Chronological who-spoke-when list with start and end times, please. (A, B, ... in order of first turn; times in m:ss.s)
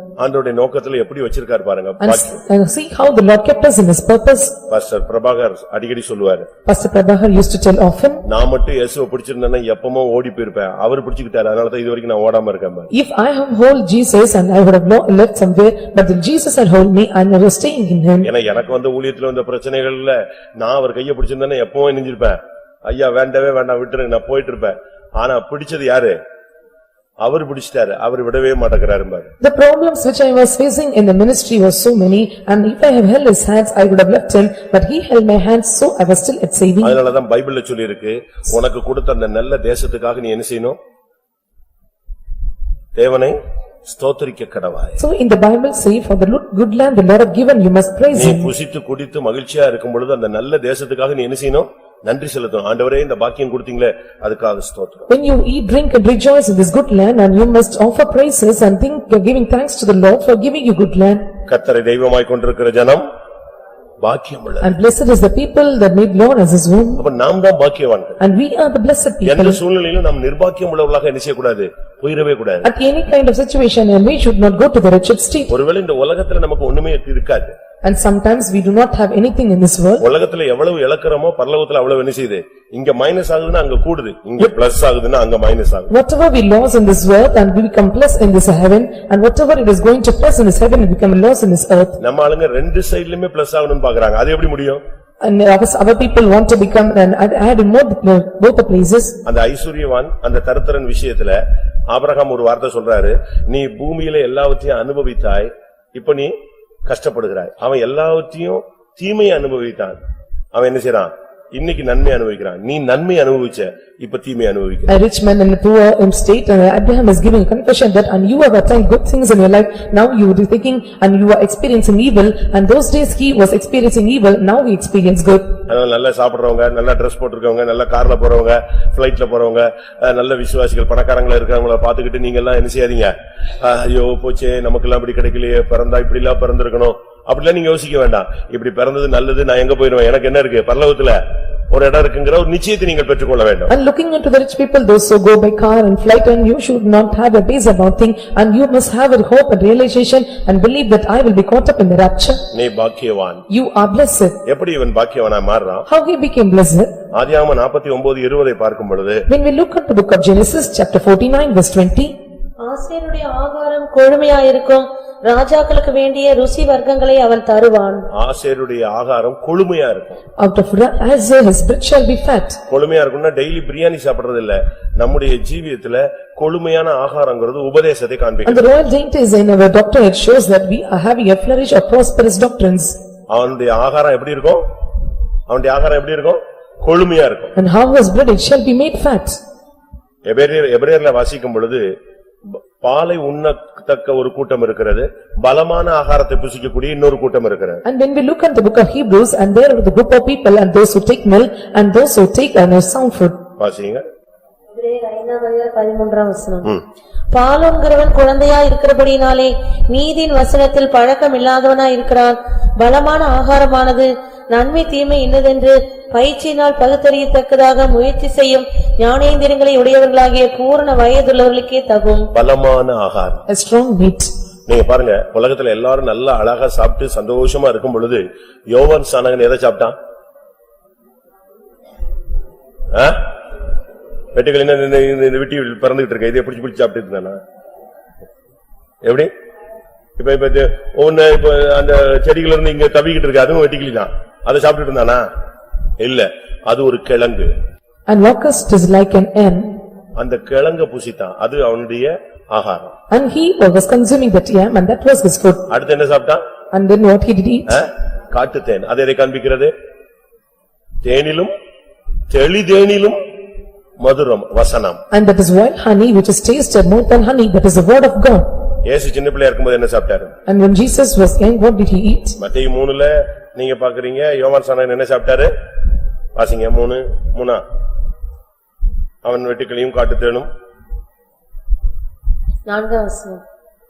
0:00.2-0:02.4 A
0:02.0-0:04.6 B
0:04.7-0:06.5 A
0:06.6-0:08.2 B
0:08.2-0:12.9 A
0:12.9-0:18.3 B
0:18.2-0:26.2 A
0:27.2-0:29.3 A
0:29.4-0:37.0 B
0:36.8-0:40.8 A
0:43.0-0:45.0 A
0:45.0-0:48.5 B
0:48.1-0:55.1 A
0:55.1-1:01.3 B
1:01.5-1:03.0 A
1:04.0-1:04.7 A
1:04.6-1:07.0 B
1:07.0-1:08.2 A
1:08.2-1:09.6 B
1:09.2-1:12.7 A
1:12.6-1:15.5 B
1:15.5-1:17.5 A
1:17.8-1:20.0 B
1:20.0-1:25.9 A
1:25.9-1:32.0 B
1:32.0-1:34.8 A
1:35.2-1:39.2 B
1:39.2-1:41.4 A
1:41.9-1:46.3 A
1:46.8-1:50.0 A
1:50.5-1:54.9 A
1:54.9-2:05.6 B
2:05.7-2:21.2 A
2:21.7-2:23.7 A
2:23.7-2:32.4 B
2:32.5-2:33.4 A
2:33.5-2:34.4 B
2:34.4-2:35.9 A
2:35.9-2:36.9 B
2:37.1-2:39.2 A
2:39.3-2:42.1 B
2:42.6-2:48.0 C
2:48.1-2:50.2 A
2:50.4-2:52.6 B
2:52.7-2:58.6 A
2:58.4-3:03.0 B
3:03.3-3:04.6 A
3:05.5-3:07.5 A
3:07.6-3:09.4 B
3:10.3-3:11.9 A
3:12.4-3:17.8 A
3:17.8-3:23.4 B
3:23.6-3:24.0 A
3:24.7-3:26.7 C
3:27.3-3:42.2 C
3:42.3-3:43.4 A
3:43.5-3:44.3 B
3:44.7-3:50.0 A
3:52.9-3:53.2 A
3:54.3-3:57.4 A
3:59.0-3:59.3 A
4:00.2-4:05.3 A
4:06.0-4:07.5 A
4:08.1-4:09.8 B
4:10.2-4:12.9 A
4:13.1-4:15.6 B
4:15.7-4:16.4 A
4:16.7-4:17.8 B
4:17.7-4:19.7 A
4:21.0-4:21.5 A
4:22.3-4:23.2 A
4:24.0-4:25.0 A
4:25.1-4:28.4 B
4:28.8-4:30.4 A
4:30.5-4:32.4 B
4:32.4-4:35.5 A
4:36.3-4:37.6 A
4:39.2-4:40.5 A
4:42.7-4:43.4 C